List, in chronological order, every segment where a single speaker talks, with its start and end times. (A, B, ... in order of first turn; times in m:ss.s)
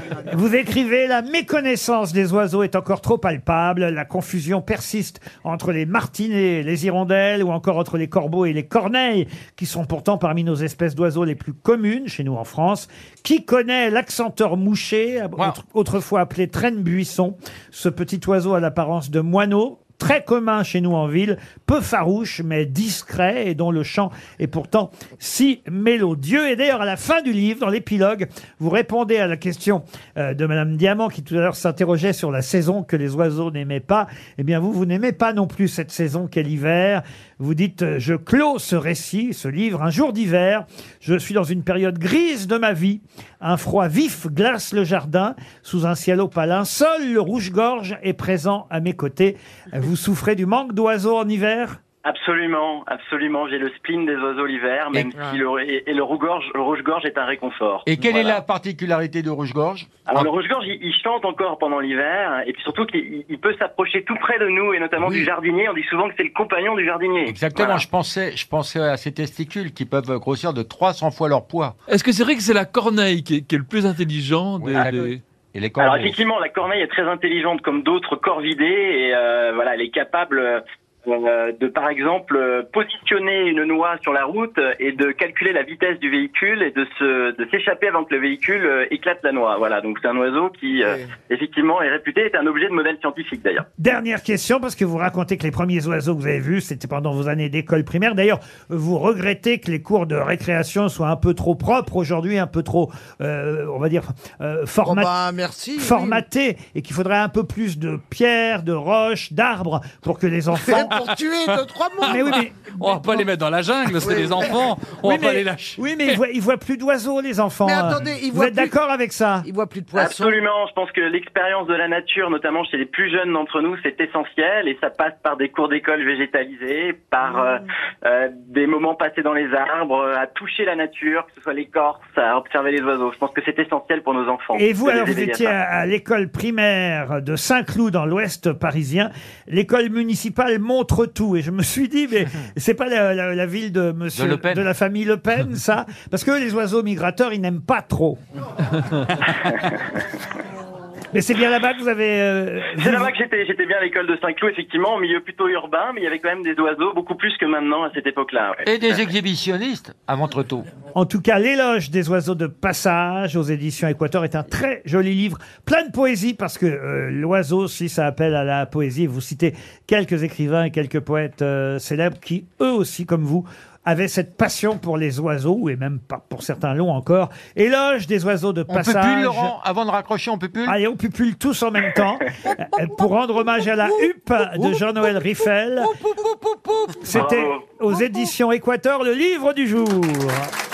0:00.3-0:51.8 A
0:52.0-0:58.4 B
0:57.9-1:00.3 C
1:00.1-1:07.9 B
1:05.0-1:05.3 C
1:07.3-1:11.8 C
1:11.9-1:15.2 D
1:14.6-1:16.2 C
1:15.8-1:33.6 B
1:33.8-1:45.2 A
1:44.8-1:46.2 E
1:45.8-1:51.0 A
1:50.6-1:52.2 E
1:51.1-1:56.1 F
1:52.1-1:53.2 A
1:53.9-1:54.6 E
1:55.0-1:59.5 A
1:57.6-1:58.8 E
1:59.4-2:00.4 E
1:59.9-2:15.5 B
2:14.5-2:28.2 A
2:24.1-2:24.7 C
2:31.1-2:33.1 A
2:32.8-2:38.9 B
2:38.6-2:40.7 C
2:40.9-2:59.5 A
2:58.7-3:00.8 C
3:00.6-3:05.9 A
3:02.5-3:07.2 E
3:07.0-3:10.5 A
3:07.1-3:07.6 B
3:07.9-3:08.3 E